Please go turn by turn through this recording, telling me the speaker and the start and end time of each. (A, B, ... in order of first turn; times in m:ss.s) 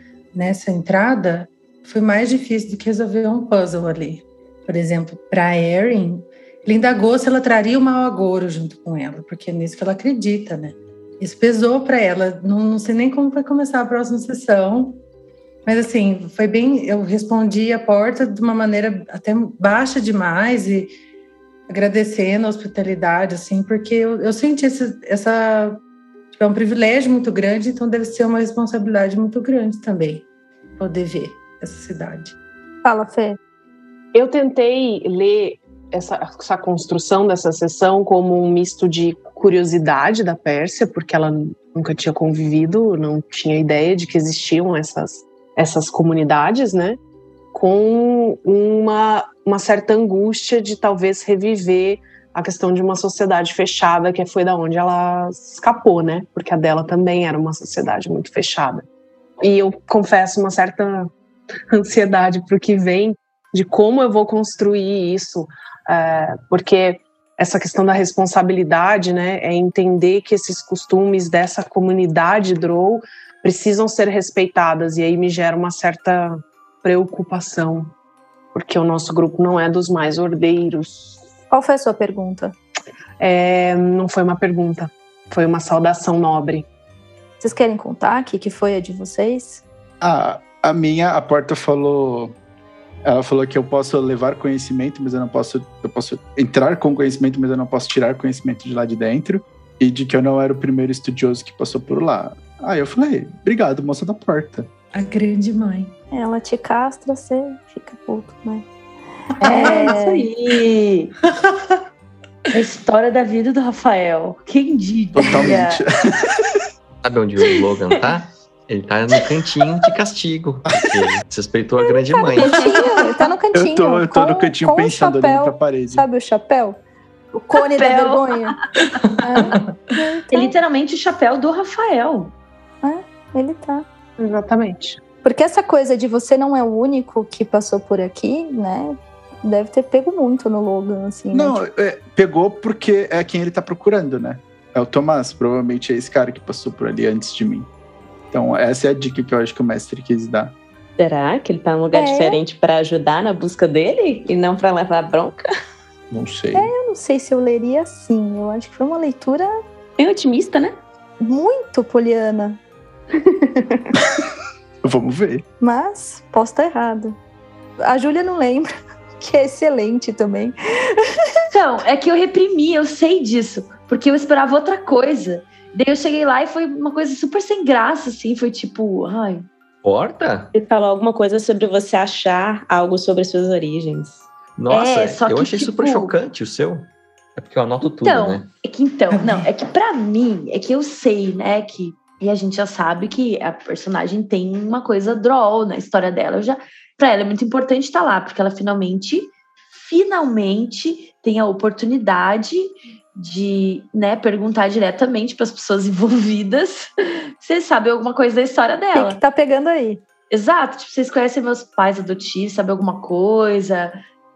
0:00.3-0:15.0 A
0:15.7-0:21.0 A
0:21.7-0:25.8 A
0:26.3-0:30.2 A
0:30.8-0:32.3 A
0:32.8-0:33.4 B
0:34.1-0:47.0 C
0:47.5-0:58.8 C
0:59.4-1:01.1 C
1:01.7-1:17.9 C
1:18.5-1:21.2 C
1:21.5-1:22.6 B
1:23.2-1:26.6 C
1:27.4-1:29.6 B
1:30.0-1:32.3 D
1:33.0-1:44.7 D
1:44.9-1:45.9 A
1:46.1-1:48.7 B
1:49.4-1:50.0 A
1:49.4-1:50.3 B
1:49.4-1:51.1 E
1:51.3-1:51.8 A
1:52.5-1:55.8 E
1:55.2-1:56.3 D
1:57.0-2:02.8 F
2:00.7-2:01.0 D
2:01.9-2:06.8 B
2:02.4-2:02.9 E
2:03.5-2:06.0 D
2:07.4-2:08.6 B
2:07.6-2:09.1 E
2:09.2-2:10.6 B
2:10.3-2:12.3 E
2:12.8-2:13.8 B
2:14.2-2:15.0 C
2:15.2-2:21.6 B
2:21.3-2:27.7 D
2:28.3-2:30.6 D
2:31.0-2:35.5 G
2:31.9-2:32.4 B
2:36.1-2:36.7 D
2:36.6-2:39.6 B
2:40.0-2:40.8 G
2:41.2-2:42.6 B
2:43.3-2:43.9 G
2:44.8-2:45.4 D
2:45.6-2:47.2 B
2:47.8-2:50.5 B
2:51.5-2:59.5 E
2:59.8-3:00.5 F
3:00.5-3:04.3 G
3:04.6-3:08.5 F
3:04.7-3:06.1 E
3:08.0-3:29.2 E
3:09.1-3:09.5 A
3:28.9-3:30.0 B
3:30.3-3:34.0 E